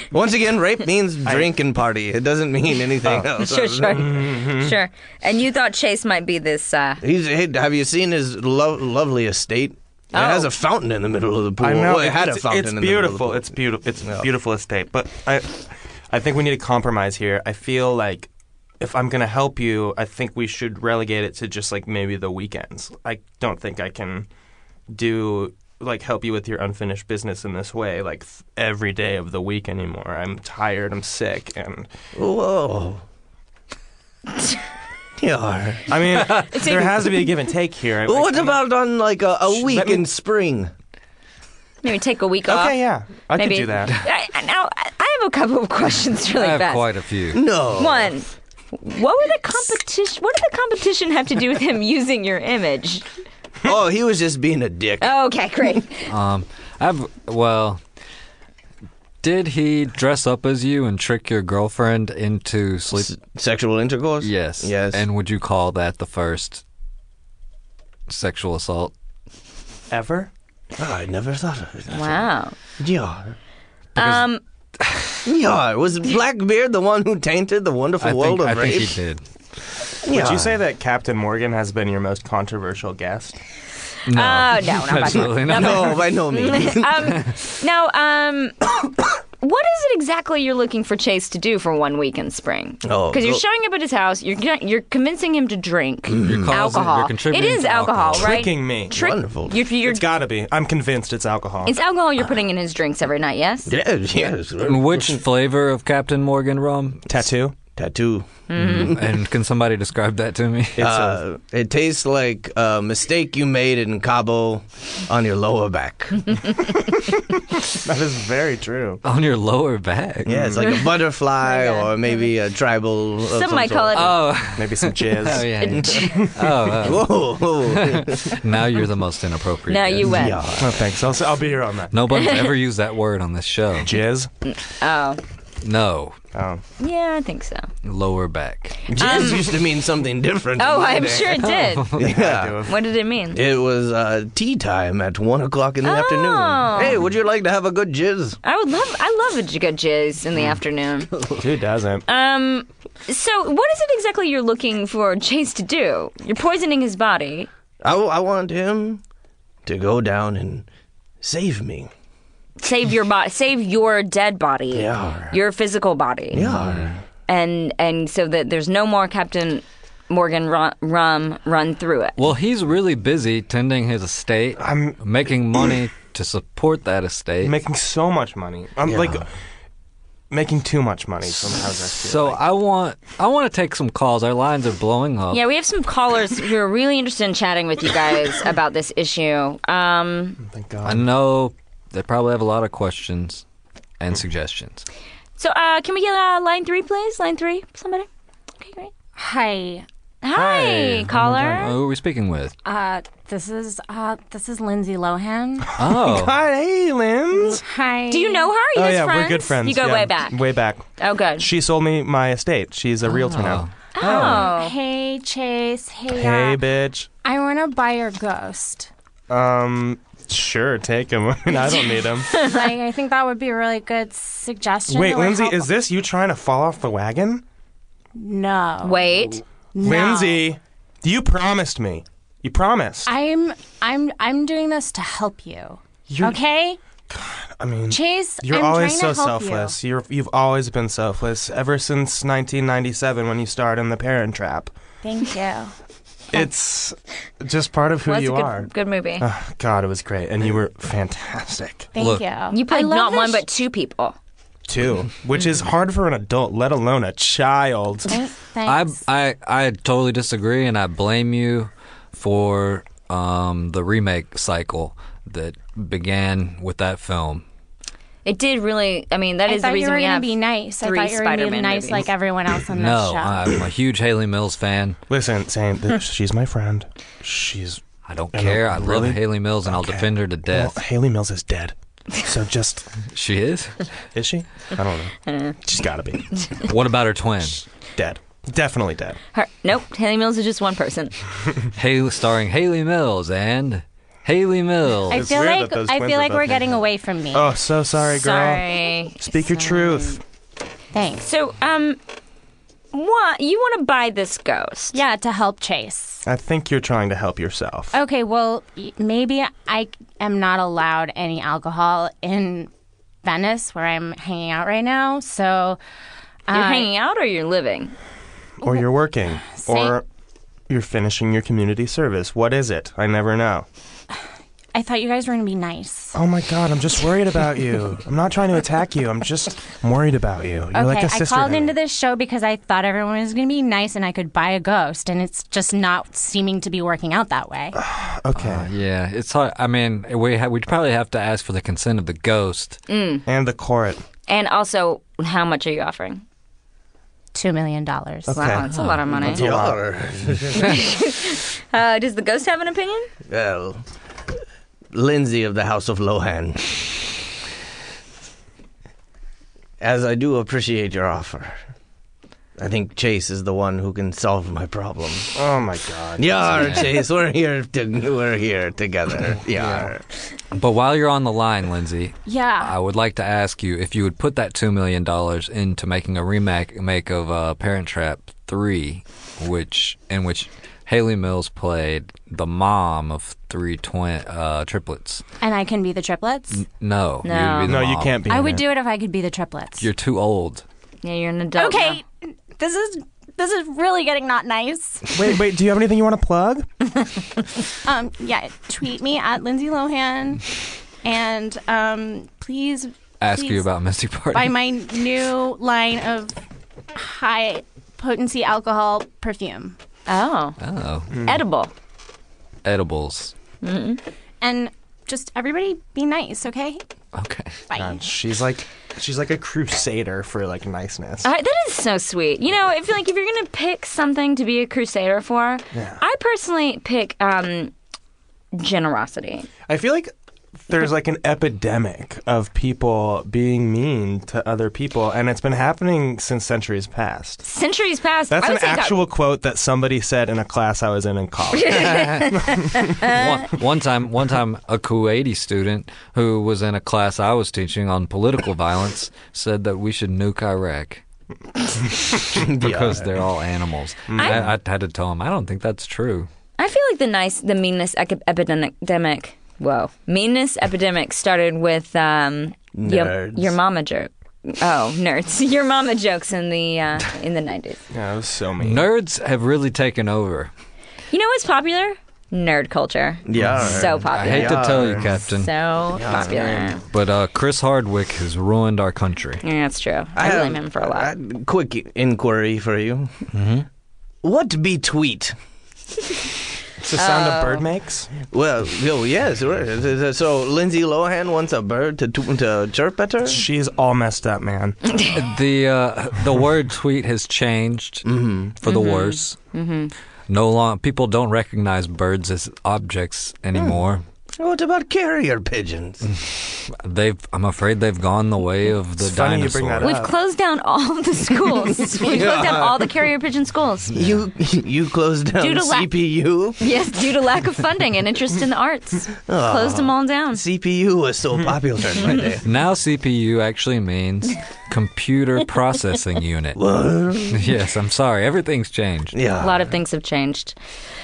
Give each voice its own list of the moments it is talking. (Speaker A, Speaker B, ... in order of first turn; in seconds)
Speaker A: 0.1-4.4, 7.0-14.2, 32.1-33.0, 35.2-36.1, 38.0-40.7, 47.3-48.1, 53.6-55.1, 62.9-65.0, 70.8-72.2, 72.8-73.3, 75.2-79.0, 80.0-80.6, 85.3-87.0, 92.8-93.4, 96.1-96.6, 98.9-99.6, 103.7-105.2, 107.8-109.0, 110.8-116.3, 120.2-124.2, 126.8-128.4, 130.0-130.9, 138.9-142.7, 143.3-148.4, 157.8-159.0, 159.7-160.7, 161.2-161.9, 164.7-165.3, 166.3-167.0, 178.9-179.1, 349.1-350.8, 353.3-353.8, 354.9-356.9, 359.8-361.6, 362.6-365.3, 366.2-370.0, 452.4-453.1, 462.7-463.5, 473.2-475.1, 475.9-476.8, 480.1-483.1, 484.2-485.3, 488.3-493.4, 498.0-498.6, 503.5-503.8, 504.4-506.1, 511.9-512.9, 513.9-516.6, 519.3-522.4, 526.5-527.5, 529.1-529.7
Speaker B: 1.2-1.5, 3.9-4.8, 11.6-18.3, 18.8-24.3, 24.9-31.9, 35.9-38.7, 39.5-40.1, 42.5-43.9, 69.9-70.3, 80.1-83.3, 98.2-99.0, 99.8-101.8, 107.1-107.6, 110.8-111.2, 117.8-119.0, 120.3-120.8, 124.4-126.7, 130.6-131.9, 133.8-134.3, 136.3-136.6, 138.9-139.3, 142.0-142.7, 151.4-152.0, 174.6-175.0, 177.4-179.3, 180.3-182.4, 190.4-191.1, 201.2-201.6, 205.6-207.6, 208.7-210.8, 211.4-213.7, 216.1-217.1, 219.3-222.4, 224.9-227.4, 229.8-233.1, 236.1-236.4, 237.1-244.7, 246.3-251.9, 254.7-258.2, 275.1-277.8, 278.3-282.9, 284.1-286.4, 287.9-289.2, 295.1-300.2, 306.2-307.9, 318.6-320.0, 320.7-323.6, 326.1-331.8, 337.7-338.7, 343.2-344.0, 348.2-349.8, 365.3-367.0, 369.6-369.8, 387.6-388.6, 395.1-396.7, 411.1-411.4, 417.7-421.3, 425.7-426.0, 429.7-430.1, 430.6-437.4, 438.3-442.9, 454.1-454.5, 467.9-468.9, 473.5-473.8, 486.8-488.1, 493.2-495.1, 509.0-510.1
Speaker C: 3.4-7.0, 10.1-10.5, 36.4-37.0, 41.8-42.8, 43.3-46.8, 47.8-53.0, 55.0-56.1, 71.9-72.5, 73.9-74.4, 84.1-88.6, 89.4-100.0, 101.6-103.7, 108.5-108.9, 121.4-121.9, 123.3-124.1, 125.6-126.2, 129.7-130.4, 132.1-132.5, 134.4-135.2, 136.8-137.7, 139.0-139.5, 140.6-141.9, 142.6-143.4, 145.8-147.0, 148.4-151.1, 152.1-157.5, 162.6-166.5, 167.3-172.2, 185.3-190.4, 195.4-198.1, 198.6-198.9, 200.2-201.7, 208.1-210.4, 211.0-211.5, 213.9-214.7, 228.8-229.4, 248.0-249.3, 252.5-254.2, 268.2-272.1, 285.3-285.5, 289.3-291.2, 298.1-299.4, 301.2-302.0, 302.9-305.0, 316.5-317.9, 342.9-343.2, 344.3-346.2, 348.3-349.4, 350.5-353.1, 387.2-387.7, 391.0-392.0, 410.1-410.6, 411.2-411.7, 413.6-414.0, 421.2-427.7, 428.5-429.5, 437.4-439.0, 441.5-443.2, 456.6-467.8, 471.1-474.7, 475.3-476.8, 479.4-481.1, 486.9-487.6, 498.6-499.9, 509.8-514.1, 515.4-515.9, 516.6-520.4, 529.4-530.5
Speaker D: 46.3-47.5, 56.1-57.8, 59.2-63.1, 64.2-66.6, 68.1-68.9, 74.0-74.3, 74.8-75.2, 78.0-79.2, 84.1-86.0, 96.2-98.4, 104.6-107.0, 108.6-110.8, 119.0-120.6, 123.9-130.2, 131.9-133.9, 135.6-136.2, 137.8-138.8, 141.4-142.0, 166.4-166.9, 172.2-177.5, 181.4-185.4, 190.8-193.4, 194.0-194.8, 200.3-202.5, 205.8-206.3, 213.1-214.4, 251.9-252.3, 258.6-267.4, 272.7-275.0, 278.0-280.8, 283.1-283.9, 286.7-287.6, 291.8-295.3, 338.4-342.8, 348.7-349.0, 366.5-366.8, 370.5-385.2, 386.6-388.3, 389.8-390.6, 403.2-404.6, 410.6-411.1, 412.6-413.3, 417.1-417.6, 441.7-442.4, 443.0-451.0, 452.6-456.3, 468.6-470.5, 474.1-475.5, 476.8-479.4, 483.3-483.6, 495.1-499.4, 500.3-504.0, 506.1-509.9, 522.4-526.6, 527.3-529.1
Speaker E: 96.6-97.1, 199.2-199.8, 202.6-205.7, 207.4-208.5, 214.0-216.6, 217.2-218.9, 221.6-225.7, 228.2-230.5, 233.1-236.8, 237.9-239.8, 245.0-245.7, 251.9-253.4, 258.1-259.0, 269.4-273.5, 295.1-297.6, 299.5-299.9, 300.9-301.2, 304.9-306.2, 307.9-312.7, 313.2-315.8, 316.5-316.9, 319.4-320.0, 324.7-326.2, 330.7-337.8, 347.3-348.6, 372.2-372.8, 385.4-386.6, 388.3-389.9, 391.6-395.1, 397.8-400.4, 401.0-403.7, 404.3-406.4, 406.9-409.8, 414.4-416.8, 417.7-418.0